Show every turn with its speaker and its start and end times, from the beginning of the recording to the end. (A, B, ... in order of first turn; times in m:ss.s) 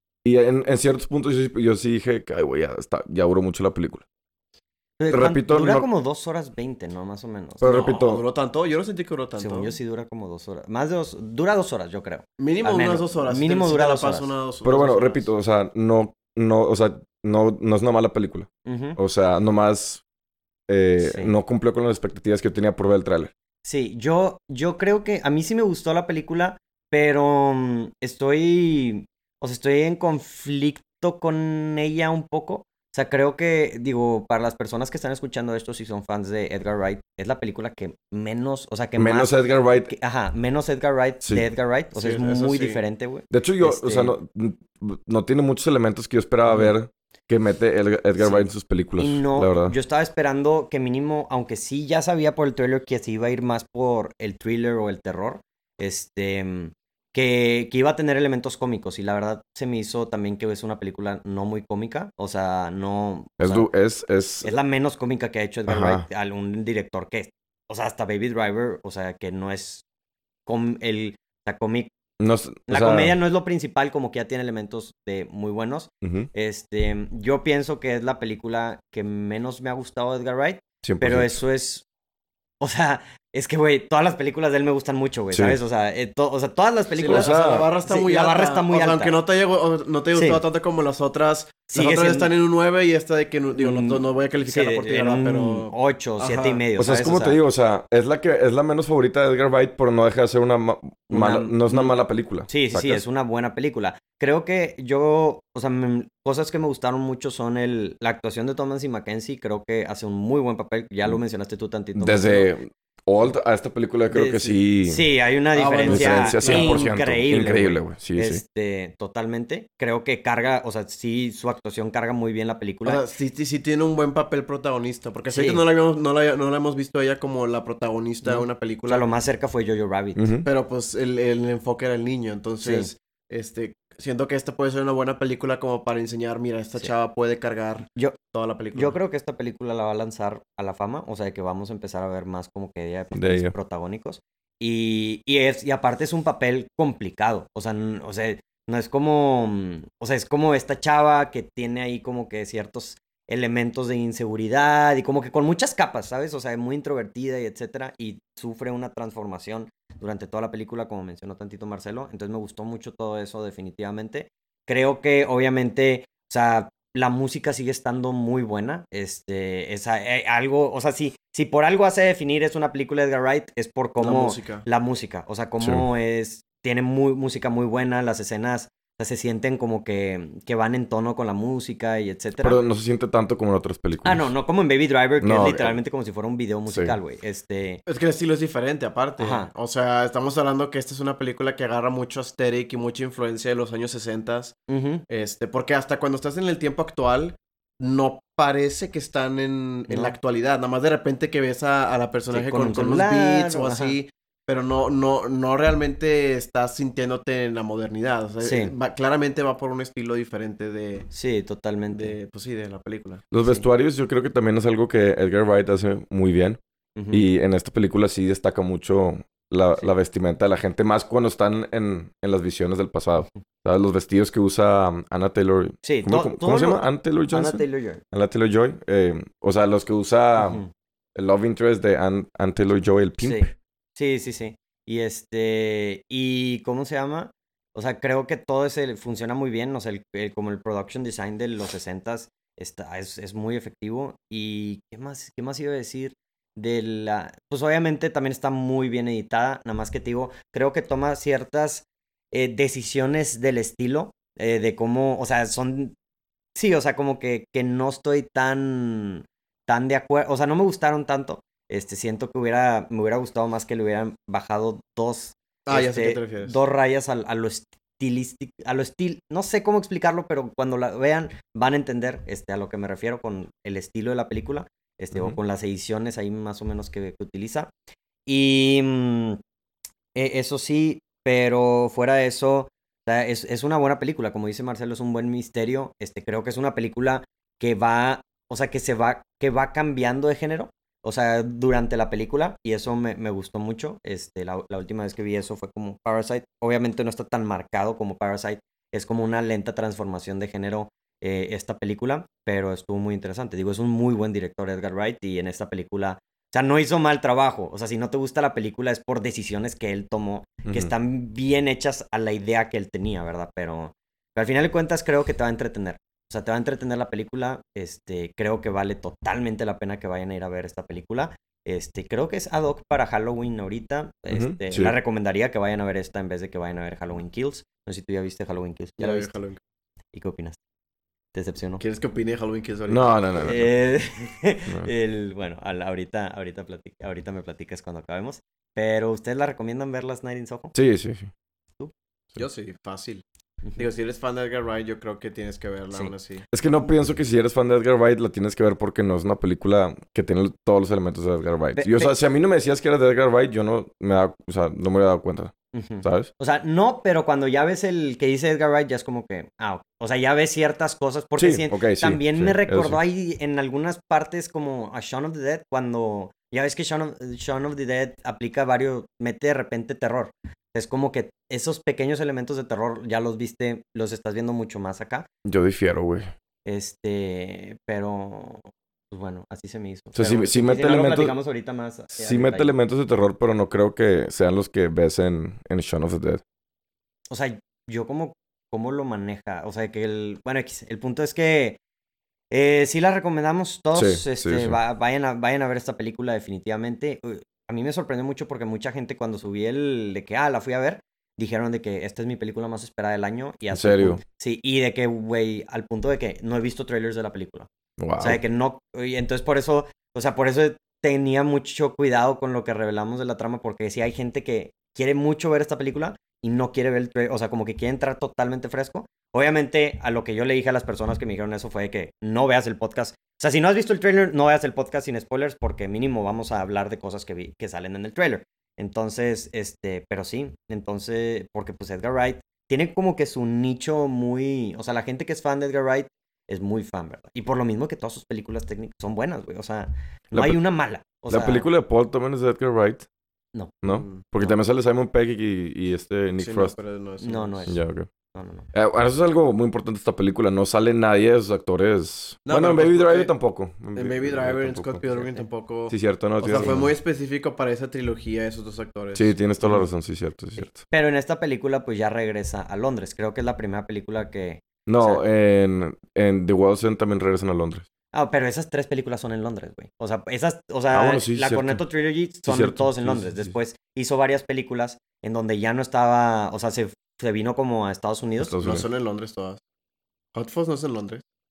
0:00.2-0:04.0 A
0:05.0-0:07.7 B
0:05.1-0:05.9 A
0:07.6-0:08.2 A
0:07.6-0:09.8 C
0:09.4-0:14.3 B
0:12.4-0:15.3 C
0:14.6-0:20.0 A
0:18.6-0:19.0 B
0:20.7-0:23.3 A
0:21.0-0:21.4 B
0:23.6-0:44.2 B
0:39.0-0:39.9 A
0:41.2-0:41.5 A
0:41.9-0:42.8 C
0:43.3-0:49.8 A
0:46.5-0:46.7 B
0:48.2-1:03.7 B
1:03.4-1:04.5 A
1:04.4-1:09.8 B
1:05.7-1:06.1 A
1:10.5-1:11.9 B
1:12.2-1:13.2 A
1:12.7-1:21.8 B
1:16.0-1:16.3 A
1:20.8-1:21.4 A
1:22.6-1:29.2 B
1:25.3-1:25.6 A
1:27.0-1:36.6 C
1:27.1-1:27.7 A
1:30.1-1:30.4 B
1:31.7-1:32.3 B
1:33.6-1:37.4 B
1:36.8-1:43.0 A
1:41.1-1:42.0 B
1:42.5-1:52.5 B
1:52.0-1:55.1 A
1:54.1-1:54.6 C
1:54.8-2:03.0 B
1:55.5-1:56.9 C
1:55.9-1:58.4 A
2:02.8-2:09.1 C
2:05.3-2:05.6 B
2:08.2-2:10.2 B
2:10.2-2:10.5 A
2:10.4-2:19.0 C
2:12.6-2:12.9 B
2:18.7-3:02.6 B
2:23.2-2:23.5 A
2:54.0-2:54.6 C
2:55.6-2:55.9 A
3:02.4-3:04.3 A
3:04.0-3:07.8 B
3:05.2-3:05.8 A
3:06.7-3:07.0 A
3:07.9-3:14.6 C
3:09.2-3:09.5 B
3:14.7-3:15.0 B
3:15.1-3:31.1 C
3:19.9-3:20.2 B
3:22.3-3:24.0 B
3:28.4-3:28.7 B
3:31.1-3:32.2 B
3:31.9-3:33.2 C
3:33.3-3:36.6 A
3:37.0-3:37.2 B
3:37.1-3:50.6 A
3:45.8-3:48.0 B
3:50.4-3:50.7 B
3:51.2-3:53.5 A
3:53.2-4:16.0 B
4:16.6-4:37.7 B
4:25.7-4:26.6 C
4:38.3-4:39.4 B
4:40.2-5:29.4 B
5:10.7-5:10.9 A
5:24.3-5:25.0 A
5:29.0-5:29.6 C
5:30.1-5:30.6 B
5:31.3-5:31.8 B
5:31.8-5:33.3 C
5:32.9-5:33.7 A
5:33.4-5:40.7 B
5:40.8-5:41.3 A
5:42.4-5:46.4 C
5:46.5-5:56.3 A
5:51.8-5:52.1 B
5:55.7-6:15.3 B
6:01.4-6:03.0 A
6:15.4-6:16.3 A
6:16.6-6:22.8 B
6:20.2-6:21.4 A
6:22.2-6:26.4 A
6:27.3-6:31.8 B
6:32.5-6:47.7 B
6:33.9-6:34.8 A
6:43.7-6:44.2 A
6:48.0-6:48.4 A
6:48.2-7:21.7 B
7:20.3-7:20.6 A
7:21.3-7:23.1 A
7:23.8-7:26.8 A
7:23.8-7:24.2 C
7:26.4-7:27.7 C
7:27.2-7:27.8 B
7:27.7-7:28.1 A
7:28.3-7:28.7 B
7:28.7-7:35.1 A
7:32.4-7:33.3 C
7:33.9-7:39.8 C
7:35.1-7:35.5 B
7:35.9-7:36.9 A
7:36.5-7:36.8 B
7:39.2-7:40.8 A
7:40.6-7:45.2 B
7:44.9-7:47.8 A
7:48.1-7:58.6 B
7:50.9-7:51.8 A
7:52.4-7:53.6 A
7:58.4-7:58.8 A
7:58.6-7:59.6 C
8:00.3-8:01.2 C